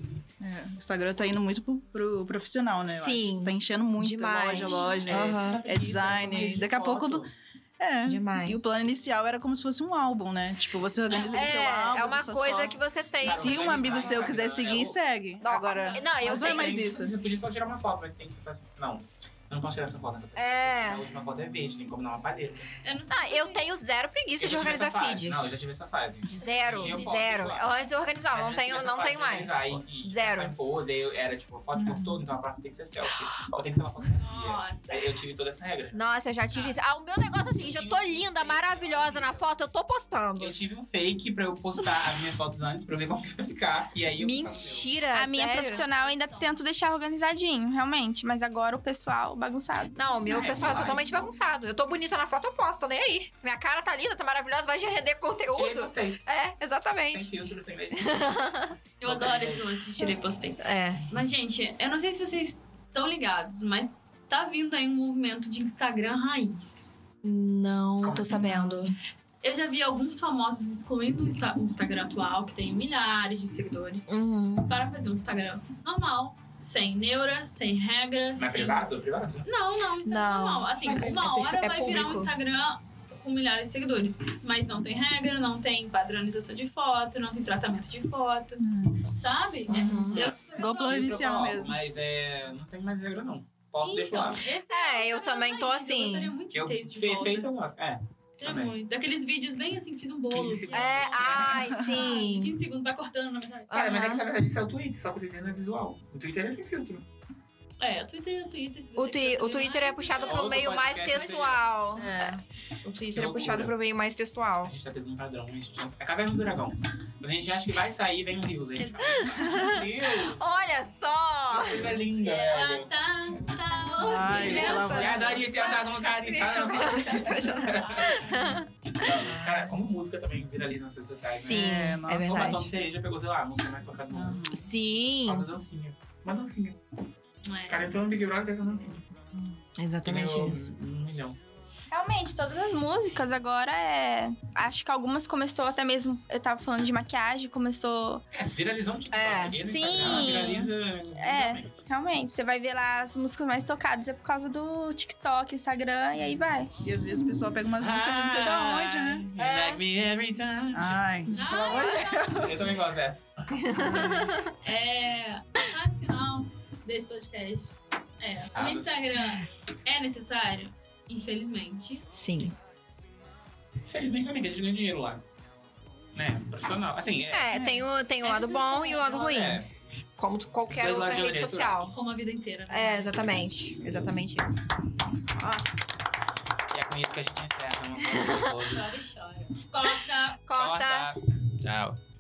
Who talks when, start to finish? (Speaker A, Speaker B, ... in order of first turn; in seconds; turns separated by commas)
Speaker A: 0.4-7.3, Speaker B: 2.9-5.6, Speaker C: 4.5-7.3, Speaker A: 7.8-17.1, Speaker B: 8.1-8.7, Speaker D: 11.1-11.9, Speaker B: 11.3-14.4, Speaker D: 12.5-12.7, Speaker C: 13.2-15.0, Speaker B: 15.4-16.8, Speaker D: 15.7-16.2, Speaker C: 16.2-22.7, Speaker B: 20.4-21.0, Speaker D: 22.8-23.7, Speaker B: 23.1-25.4, Speaker C: 24.4-27.6, Speaker B: 26.3-30.5, Speaker D: 26.7-27.2, Speaker C: 28.3-36.0, Speaker A: 31.8-32.2, Speaker D: 34.2-35.1, Speaker B: 35.9-40.6, Speaker D: 36.5-36.8, Speaker C: 37.5-39.5, Speaker C: 40.4-44.9, Speaker B: 44.2-45.9, Speaker E: 45.1-50.0, Speaker D: 45.5-46.6, Speaker B: 50.0-57.3, Speaker C: 50.2-51.3, Speaker C: 55.5-56.2, Speaker C: 57.1-58.4, Speaker B: 57.9-58.7, Speaker D: 59.0-66.9, Speaker C: 59.0-60.1, Speaker B: 60.6-61.0, Speaker B: 67.2-69.0, Speaker C: 68.0-68.9, Speaker D: 69.4-74.1, Speaker B: 74.1-74.7, Speaker D: 74.6-78.8, Speaker C: 78.4-79.5, Speaker D: 79.4-88.6, Speaker B: 80.0-82.3, Speaker A: 88.6-89.1, Speaker D: 89.2-91.5, Speaker A: 89.7-91.8, Speaker B: 89.7-90.2, Speaker C: 90.1-94.4, Speaker D: 93.8-97.5, Speaker B: 94.7-96.3, Speaker C: 96.5-98.8, Speaker D: 98.4-103.7, Speaker C: 100.3-101.7, Speaker B: 100.7-102.6, Speaker A: 101.5-102.0, Speaker B: 103.7-104.2, Speaker C: 103.7-107.0, Speaker D: 107.8-112.1, Speaker B: 109.0-112.3, Speaker C: 110.2-111.7, Speaker A: 112.0-112.4, Speaker B: 112.8-114.7, Speaker C: 113.0-113.7, Speaker C: 114.6-120.4, Speaker B: 118.8-122.0, Speaker C: 121.5-123.6, Speaker D: 122.2-125.4, Speaker A: 124.0-125.4, Speaker C: 124.2-134.4, Speaker B: 124.3-129.1, Speaker D: 127.5-128.6, Speaker A: 129.3-129.7, Speaker B: 131.3-132.7, Speaker A: 131.5-132.3, Speaker A: 134.1-134.7, Speaker B: 134.5-135.4, Speaker C: 135.2-136.8, Speaker D: 137.4-137.8, Speaker C: 137.7-139.1, Speaker B: 139.8-140.7, Speaker C: 140.0-141.4, Speaker E: 141.9-148.2, Speaker C: 148.3-151.7, Speaker B: 149.1-150.5, Speaker E: 149.5-156.7, Speaker A: 156.8-159.3, Speaker C: 157.8-161.0, Speaker B: 159.4-159.8, Speaker A: 160.7-162.8, Speaker D: 161.3-162.8, Speaker C: 162.4-163.7, Speaker B: 163.6-164.5, Speaker A: 163.7-164.3, Speaker D: 164.6-172.1, Speaker C: 168.6-168.9, Speaker B: 172.1-172.5, Speaker C: 173.9-175.2, Speaker C: 176.2-177.6, Speaker B: 177.3-179.6, Speaker A: 177.5-177.8, Speaker D: 178.2-179.4, Speaker C: 179.0-179.7, Speaker B: 180.2-181.9, Speaker C: 180.7-181.9, Speaker D: 181.9-183.1, Speaker B: 182.7-184.7, Speaker A: 185.4-185.7, Speaker C: 186.7-189.0, Speaker B: 188.2-188.5, Speaker D: 188.4-190.4, Speaker B: 190.5-191.1, Speaker C: 190.5-192.0